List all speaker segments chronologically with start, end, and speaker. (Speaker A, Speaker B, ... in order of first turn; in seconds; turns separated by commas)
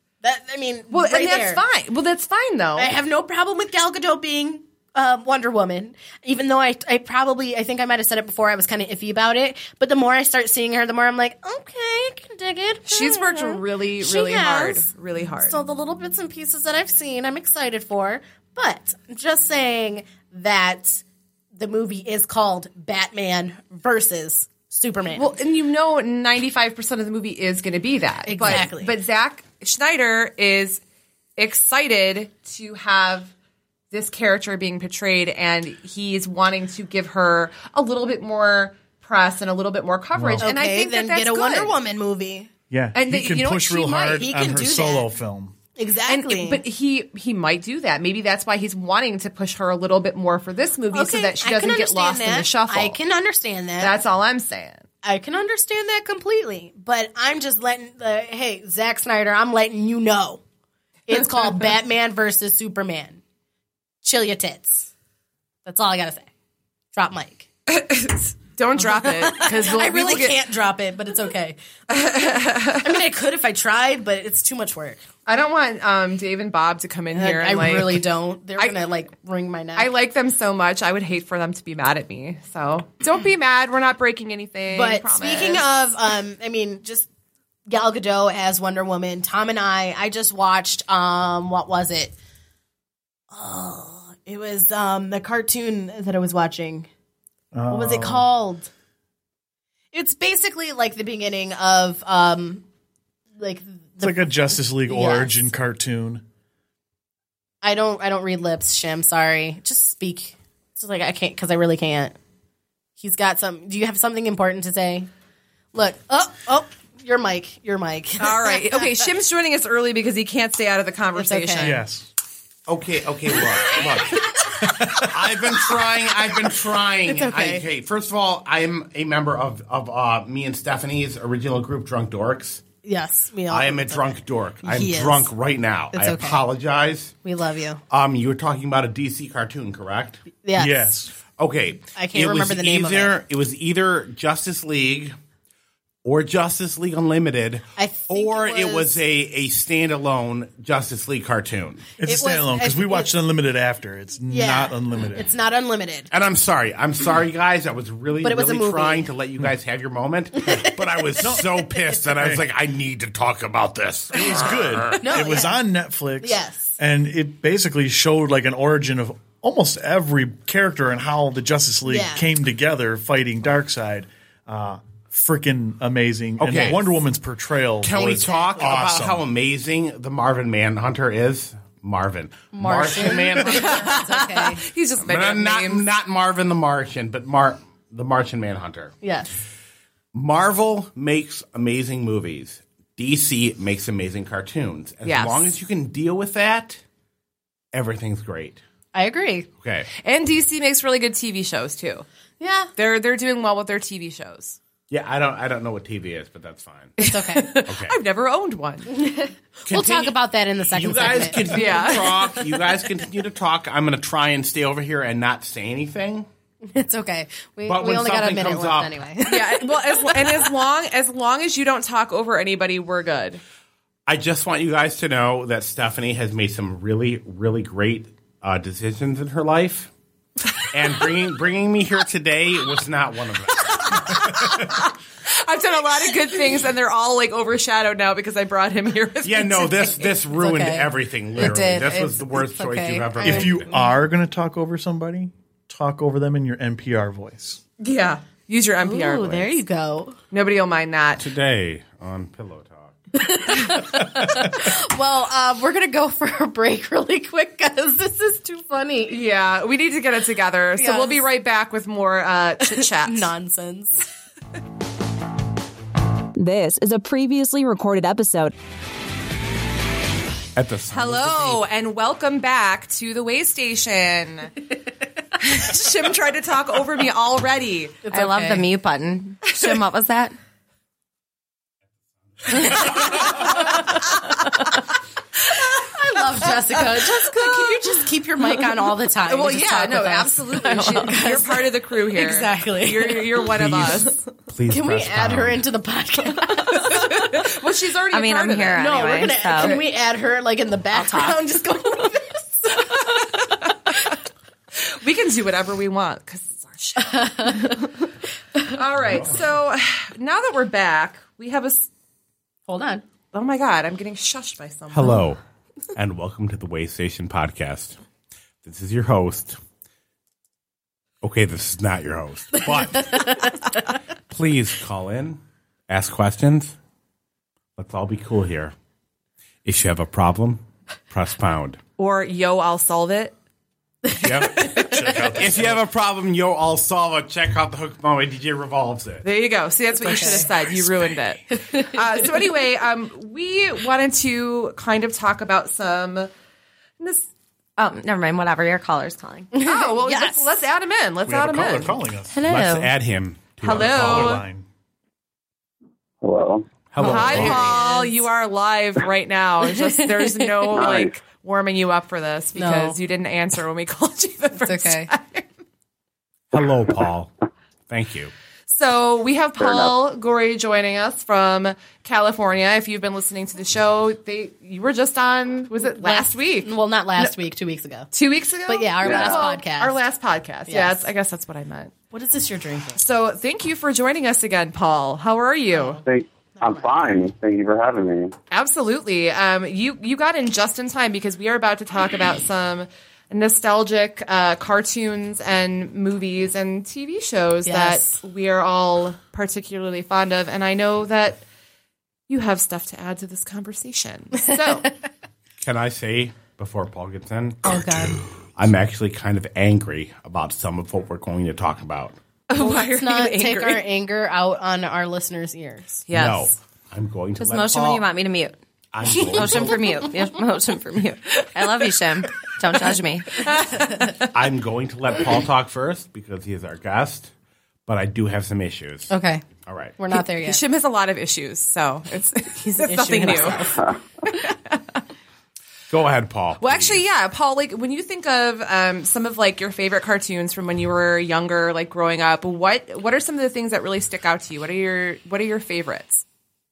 Speaker A: 0.2-1.6, Speaker B: 0.9-2.9, Speaker A: 2.8-14.9, Speaker B: 12.9-15.6, Speaker A: 15.4-21.0, Speaker A: 21.5-25.3, Speaker B: 25.1-30.8, Speaker A: 28.2-28.9, Speaker B: 31.4-33.3, Speaker B: 33.9-41.7, Speaker C: 40.1-40.5, Speaker A: 40.4-42.5, Speaker C: 42.7-45.5, Speaker B: 42.9-44.2, Speaker A: 44.0-45.1, Speaker A: 45.7-46.6, Speaker B: 46.1-53.0, Speaker A: 50.9-54.0, Speaker B: 53.8-54.9, Speaker A: 55.0-60.4, Speaker A: 61.1-63.2, Speaker A: 64.0-64.9, Speaker A: 65.6-66.3, Speaker A: 66.9-67.5, Speaker B: 67.7-70.4, Speaker A: 68.8-71.6, Speaker B: 71.9-73.0, Speaker A: 72.8-75.0, Speaker B: 75.2-78.8, Speaker A: 77.1-79.9, Speaker B: 79.7-85.6, Speaker A: 84.7-87.1, Speaker A: 87.7-92.2, Speaker A: 93.3-96.9, Speaker C: 97.5-98.3, Speaker A: 97.7-98.7, Speaker A: 99.9-102.6, Speaker A: 103.4-104.3, Speaker C: 104.0-106.2, Speaker A: 104.8-105.4, Speaker A: 107.6-112.1, Speaker A: 113.0-115.1, Speaker A: 115.7-119.0, Speaker B: 118.2-121.8, Speaker A: 121.2-121.8, Speaker C: 121.6-122.1, Speaker D: 122.7-132.6, Speaker A: 123.7-124.3, Speaker C: 124.6-125.1, Speaker A: 127.0-127.6, Speaker A: 132.8-134.1, Speaker D: 133.5-137.2, Speaker A: 134.6-135.3, Speaker A: 135.9-136.4, Speaker A: 137.2-137.8, Speaker D: 137.9-140.2, Speaker A: 140.4-140.9, Speaker C: 140.6-141.1, Speaker D: 141.4-145.1, Speaker A: 141.9-143.1, Speaker D: 146.0-151.9, Speaker A: 147.8-149.0, Speaker C: 152.0-155.3, Speaker A: 152.0-153.1, Speaker A: 154.3-156.1, Speaker D: 156.1-165.0, Speaker A: 158.2-159.1, Speaker A: 160.4-161.2, Speaker C: 161.2-162.4, Speaker C: 164.1-179.2, Speaker A: 165.0-165.6, Speaker A: 166.2-166.8, Speaker A: 171.9-172.2, Speaker D: 176.4-176.8, Speaker D: 177.8-184.0, Speaker A: 178.0-178.4, Speaker A: 182.5-184.6, Speaker B: 183.5-185.8, Speaker D: 185.0-188.9, Speaker A: 189.0-189.3, Speaker D: 190.1-196.8, Speaker B: 195.0-195.5, Speaker D: 197.7-198.6, Speaker A: 198.9-199.5, Speaker D: 199.6-199.9, Speaker B: 200.0-202.1, Speaker A: 202.4-202.7, Speaker B: 202.8-204.6, Speaker D: 204.9-206.9, Speaker B: 207.0-208.9, Speaker A: 207.0-207.7, Speaker D: 207.7-208.0, Speaker A: 208.9-212.6, Speaker D: 209.7-210.1, Speaker D: 210.7-216.3, Speaker B: 211.5-212.1, Speaker A: 216.7-220.5, Speaker D: 217.7-219.0, Speaker B: 219.2-223.4, Speaker D: 224.1-229.9, Speaker D: 230.6-234.8, Speaker B: 233.8-240.1, Speaker D: 239.2-243.7, Speaker A: 240.3-243.8, Speaker C: 243.2-247.6, Speaker B: 247.8-249.6, Speaker A: 248.8-250.2, Speaker B: 250.3-251.2, Speaker D: 251.2-253.0, Speaker A: 253.2-259.2, Speaker B: 259.1-263.3, Speaker A: 260.8-261.2, Speaker A: 262.8-264.0, Speaker E: 266.4-268.5, Speaker D: 270.6-271.6, Speaker B: 270.9-274.6, Speaker B: 275.4-278.5, Speaker A: 278.0-278.7, Speaker F: 278.1-280.3, Speaker B: 279.5-279.8, Speaker A: 282.5-284.7, Speaker A: 285.5-293.5, Speaker B: 287.1-287.7, Speaker B: 289.2-294.2, Speaker D: 293.6-295.6, Speaker A: 294.7-297.5, Speaker B: 296.7-298.9, Speaker F: 298.1-299.8, Speaker E: 298.4-299.3, Speaker A: 298.7-303.7, Speaker B: 299.5-299.8, Speaker B: 304.8-307.9, Speaker A: 307.1-307.7, Speaker B: 308.6-311.9, Speaker C: 309.0-309.4, Speaker A: 312.7-313.0, Speaker B: 313.3-315.2, Speaker D: 314.9-315.4, Speaker D: 315.9-318.0, Speaker D: 318.6-319.6, Speaker D: 321.2-323.5, Speaker A: 322.9-323.6, Speaker D: 324.3-326.7, Speaker D: 327.8-328.7, Speaker D: 329.6-331.8, Speaker B: 332.0-333.3, Speaker D: 334.2-339.2, Speaker C: 334.6-335.8, Speaker B: 339.2-346.3, Speaker A: 340.0-340.5, Speaker A: 341.7-342.0, Speaker B: 347.0-347.3, Speaker F: 347.8-349.5, Speaker A: 349.5-350.5, Speaker B: 349.6-351.9, Speaker C: 351.2-352.4, Speaker E: 352.4-352.9, Speaker D: 352.4-354.4, Speaker B: 353.6-354.4, Speaker C: 353.6-354.6, Speaker G: 356.2-356.8, Speaker D: 356.9-357.8, Speaker A: 357.0-358.1, Speaker B: 357.0-365.5, Speaker G: 360.7-361.1, Speaker A: 362.5-363.0, Speaker A: 364.6-365.1, Speaker D: 366.5-367.3, Speaker D: 367.9-368.3, Speaker B: 368.7-377.3, Speaker G: 369.6-369.9, Speaker A: 375.8-378.1, Speaker B: 378.1-381.9, Speaker A: 378.7-379.9, Speaker G: 379.0-379.5, Speaker A: 380.7-381.1, Speaker A: 382.1-383.0, Speaker B: 382.9-386.0, Speaker G: 386.0-388.3, Speaker A: 386.6-386.9, Speaker B: 388.5-401.4, Speaker A: 397.6-398.1, Speaker B: 402.3-404.9, Speaker D: 405.6-412.1, Speaker A: 407.6-408.2, Speaker B: 412.5-413.8, Speaker A: 412.6-416.1, Speaker B: 416.1-416.5, Speaker D: 416.1-418.1, Speaker F: 417.4-418.6, Speaker D: 418.9-420.1, Speaker A: 419.1-419.6, Speaker F: 419.3-423.4, Speaker B: 423.4-424.3, Speaker D: 424.2-427.3, Speaker D: 427.9-429.1, Speaker A: 429.1-429.4, Speaker D: 429.6-430.0, Speaker A: 430.0-430.6, Speaker B: 430.1-435.0, Speaker A: 432.6-433.9, Speaker D: 435.9-437.0, Speaker B: 436.6-446.2